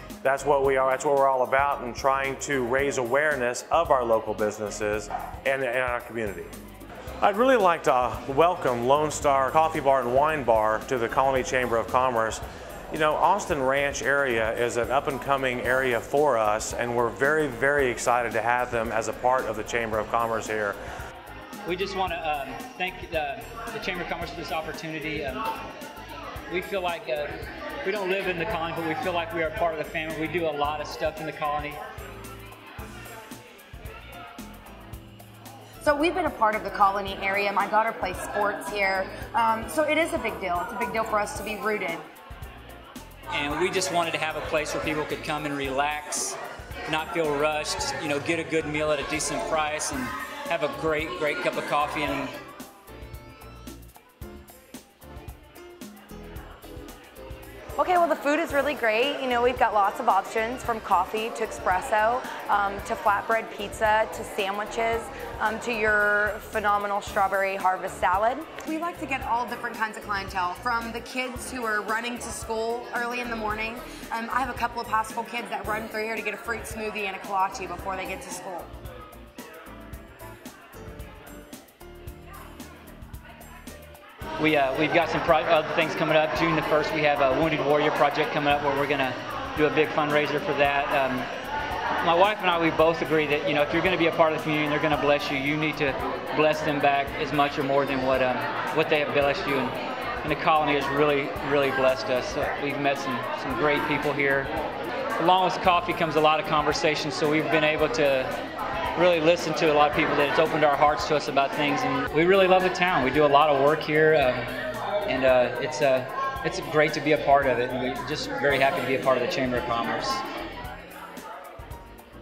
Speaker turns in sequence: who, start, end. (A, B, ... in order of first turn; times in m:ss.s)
0:00.2-0:06.5 A
0:07.2-0:20.8 A
0:21.6-0:25.5 B
0:26.5-0:31.8 B
0:35.8-0:42.0 C
0:43.3-0:52.3 B
0:57.8-1:18.7 C
1:24.4-1:31.3 B
1:32.0-1:44.5 B
1:45.2-1:48.3 B
1:49.0-1:54.6 B
1:55.1-2:00.2 B